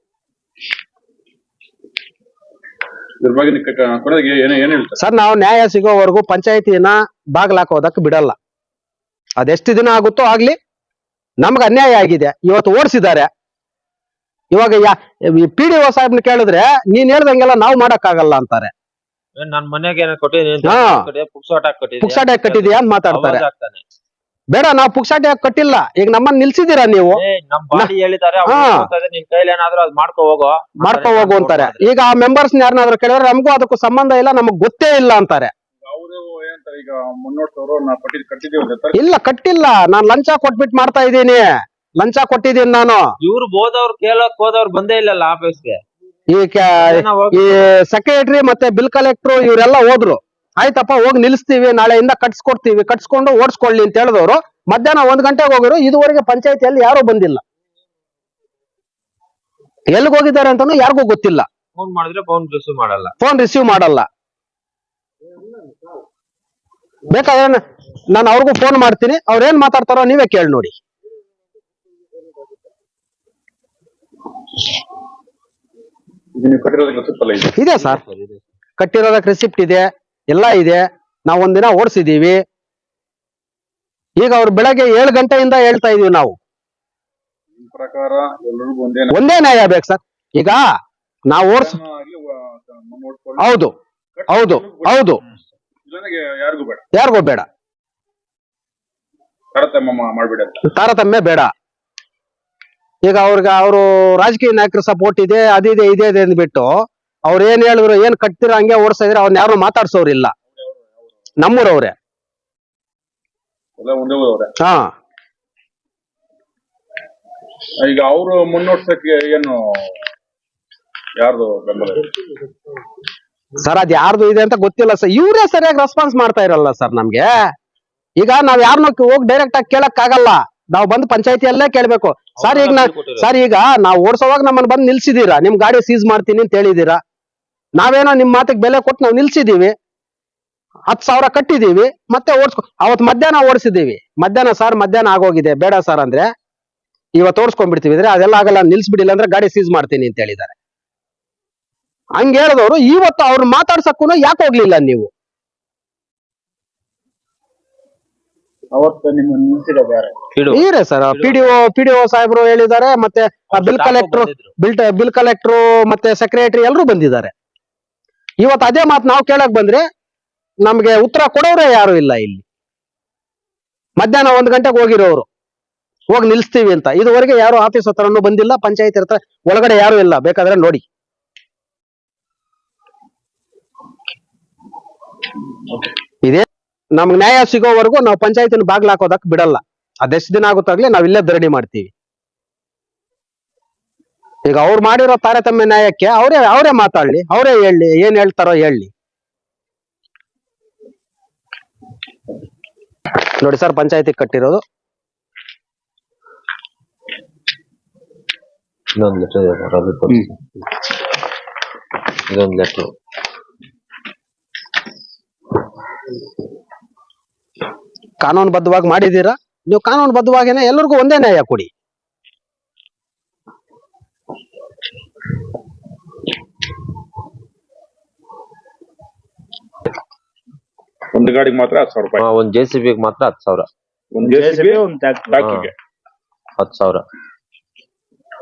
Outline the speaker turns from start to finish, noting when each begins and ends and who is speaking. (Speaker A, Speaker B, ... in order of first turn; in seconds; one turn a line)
Speaker A: 3.2-5.0
Speaker B: 5.0-8.3
Speaker B: 9.4-10.6
Speaker B: 11.4-13.3
Speaker B: 14.5-18.7
Speaker C: 19.4-23.8
Speaker B: 20.6-21.1
Speaker B: 22.0-23.5
Speaker B: 24.5-27.2
Speaker C: 27.1-31.9
Speaker B: 28.5-28.9
Speaker B: 30.8-35.5
Speaker A: 35.8-39.0
Speaker B: 38.9-43.1
Speaker C: 43.2-45.8
Speaker B: 46.3-57.4
Speaker C: 46.8-47.7
Speaker B: 59.9-61.5
Speaker C: 61.8-63.1
Speaker B: 63.2-64.1
Speaker B: 67.1-70.7
Speaker A: 76.4-77.5
Speaker B: 77.6-78.0
Speaker C: 77.8-78.4
Speaker B: 78.8-82.4
Speaker B: 84.2-86.4
Speaker A: 87.6-89.2
Speaker B: 89.1-90.6
Speaker B: 91.3-91.8
Speaker A: 91.5-93.7
Speaker B: 93.4-93.8
Speaker A: 94.2-95.2
Speaker B: 94.3-95.2
Speaker A: 95.9-96.8
Speaker B: 96.9-97.5
Speaker A: 99.5-100.7
Speaker B: 100.7-101.5
Speaker B: 103.0-110.3
Speaker B: 111.4-111.9
Speaker A: 113.8-114.5
Speaker B: 114.6-114.9
Speaker A: 117.8-119.9
Speaker A: 121.2-122.1
Speaker B: 123.6-127.5
Speaker B: 128.2-137.0
Speaker C: 132.4-133.3
Speaker B: 137.8-139.8
Speaker B: 140.9-146.3
Speaker B: 147.2-150.5
Speaker B: 152.2-155.1
Speaker D: 158.7-160.2
Speaker C: 160.3-161.6
Speaker B: 160.5-167.3
Speaker C: 163.5-164.5
Speaker B: 168.4-169.8
Speaker B: 170.6-172.4
Speaker B: 174.0-175.3
Speaker B: 176.1-180.8
Speaker B: 186.2-191.9
Speaker B: 194.5-198.9
Speaker B: 203.4-204.6
Speaker C: 209.0-210.3
Speaker C: 212.3-212.9
Speaker B: 218.2-221.7
Speaker A: 231.1-232.2
Speaker C: 232.2-233.7
Speaker A: 234.1-235.7
Speaker D: 234.2-235.4
Speaker C: 235.4-235.7
Speaker C: 236.6-237.0